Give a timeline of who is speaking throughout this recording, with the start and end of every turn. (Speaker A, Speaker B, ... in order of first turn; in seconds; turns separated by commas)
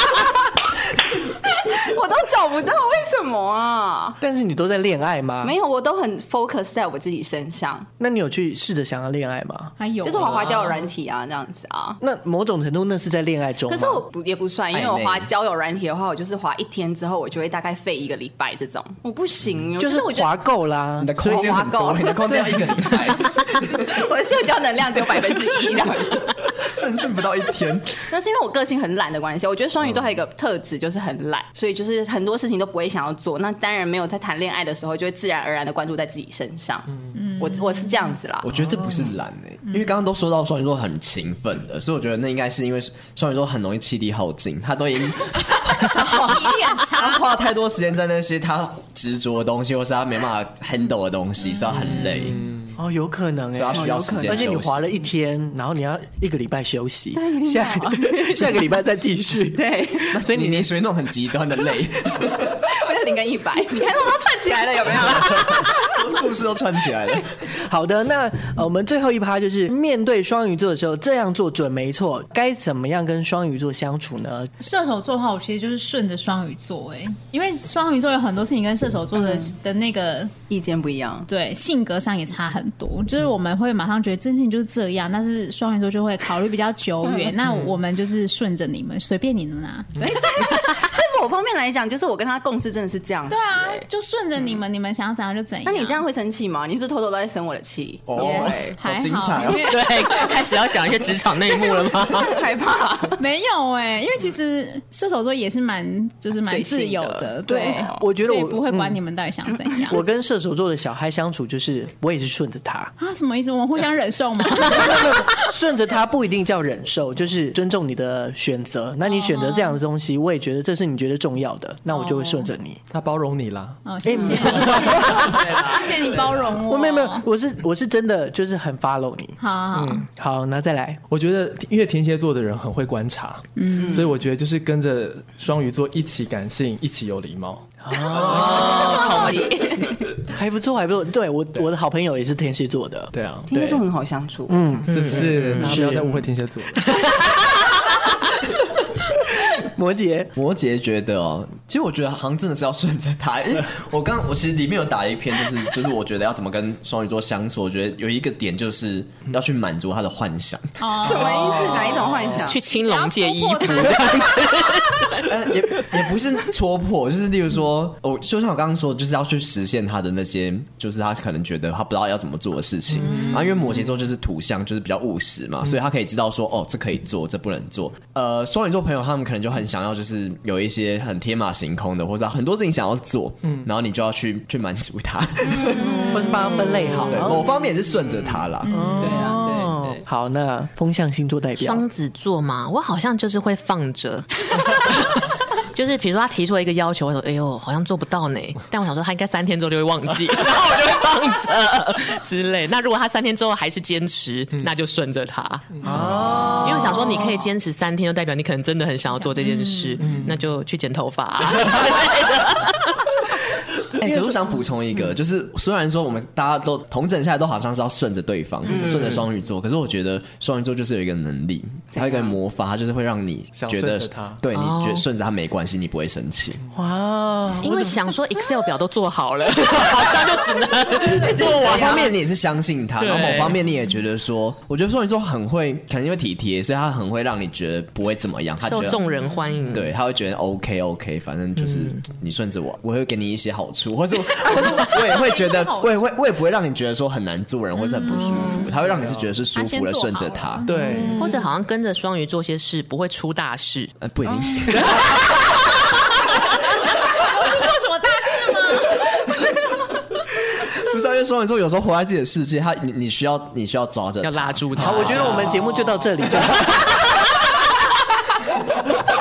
Speaker A: 1.5-4.2, Speaker B: 4.2-5.6, Speaker A: 5.4-7.9, Speaker B: 8.0-9.7, Speaker C: 9.8-10.9, Speaker A: 10.0-12.0, Speaker B: 12.0-14.1, Speaker A: 13.7-20.4, Speaker D: 14.7-15.3, Speaker B: 19.8-21.6, Speaker D: 21.0-24.0, Speaker A: 21.2-22.6, Speaker B: 22.3-22.8, Speaker A: 23.6-26.4, Speaker D: 26.5-28.0, Speaker A: 27.9-38.5, Speaker C: 37.1-38.1, Speaker D: 38.4-52.4, Speaker C: 38.8-39.1, Speaker C: 39.7-39.9, Speaker C: 46.1-47.3, Speaker C: 51.6-52.0, Speaker B: 52.8-60.7, Speaker D: 53.5-54.8, Speaker A: 53.7-54.6, Speaker A: 57.1-58.7, Speaker A: 59.5-60.2, Speaker D: 60.1-62.7, Speaker A: 62.7-66.3, Speaker D: 65.1-67.3, Speaker B: 67.5-74.5, Speaker C: 74.6-80.3, Speaker A: 79.2-79.5, Speaker A: 80.5-81.3, Speaker C: 81.3-90.6, Speaker A: 90.0-93.9, Speaker C: 93.3-96.0, Speaker A: 95.7-98.8, Speaker D: 98.1-99.7, Speaker C: 98.2-100.3, Speaker E: 99.5-102.4, Speaker A: 102.0-103.2, Speaker C: 103.2-110.0, Speaker A: 106.4-108.0, Speaker B: 107.5-109.0, Speaker A: 109.6-109.9, Speaker B: 109.9-112.9, Speaker C: 113.0-115.5, Speaker B: 114.7-122.8, Speaker C: 119.1-119.8, Speaker C: 121.9-122.5, Speaker F: 122.9-123.8, Speaker C: 123.8-127.2, Speaker B: 124.0-125.6, Speaker F: 124.3-125.4, Speaker A: 125.1-125.9, Speaker B: 126.6-129.4, Speaker C: 129.4-130.1, Speaker F: 129.8-130.1, Speaker B: 130.0-131.0, Speaker F: 131.1-137.7, Speaker C: 133.6-134.1, Speaker A: 133.8-134.1, Speaker B: 137.8-139.0, Speaker A: 138.1-140.1, Speaker E: 138.4-139.3, Speaker B: 140.3-143.8, Speaker F: 143.1-143.5, Speaker A: 143.5-144.6, Speaker B: 144.5-146.2, Speaker F: 144.9-146.8, Speaker E: 144.9-145.8, Speaker B: 149.5-150.3, Speaker D: 150.4-161.1, Speaker C: 160.8-161.8, Speaker A: 161.0-162.6, Speaker E: 161.7-165.3, Speaker D: 161.9-162.2, Speaker C: 162.5-164.6, Speaker D: 165.3-186.0, Speaker F: 172.9-173.3, Speaker C: 173.0-173.6, Speaker A: 185.5-186.0, Speaker B: 185.8-187.5, Speaker E: 186.6-187.1, Speaker D: 187.1-188.8, Speaker A: 187.2-188.2, Speaker C: 188.6-189.3, Speaker B: 188.7-191.8, Speaker A: 189.0-190.0, Speaker E: 191.6-195.2, Speaker E: 195.7-206.0, Speaker F: 205.8-206.6, Speaker B: 205.8-207.3, Speaker E: 206.6-212.9, Speaker C: 209.1-210.2, Speaker F: 210.0-210.4, Speaker D: 214.0-226.6, Speaker B: 214.0-214.6, Speaker A: 218.7-219.0, Speaker E: 218.8-219.2, Speaker A: 221.9-222.3, Speaker F: 223.6-224.4, Speaker E: 224.5-225.0, Speaker B: 226.7-228.0, Speaker E: 227.6-232.1, Speaker A: 231.0-232.1, Speaker D: 231.2-239.0, Speaker E: 233.0-233.6, Speaker E: 238.6-239.9, Speaker D: 239.7-250.7, Speaker C: 244.8-246.1, Speaker E: 248.1-248.7, Speaker F: 248.8-249.4, Speaker C: 249.5-251.4, Speaker F: 250.7-251.2, Speaker E: 251.2-253.9, Speaker D: 254.0-255.4, Speaker A: 254.3-254.9, Speaker C: 257.1-259.1, Speaker D: 260.8-265.3, Speaker E: 264.2-265.9, Speaker B: 264.8-267.0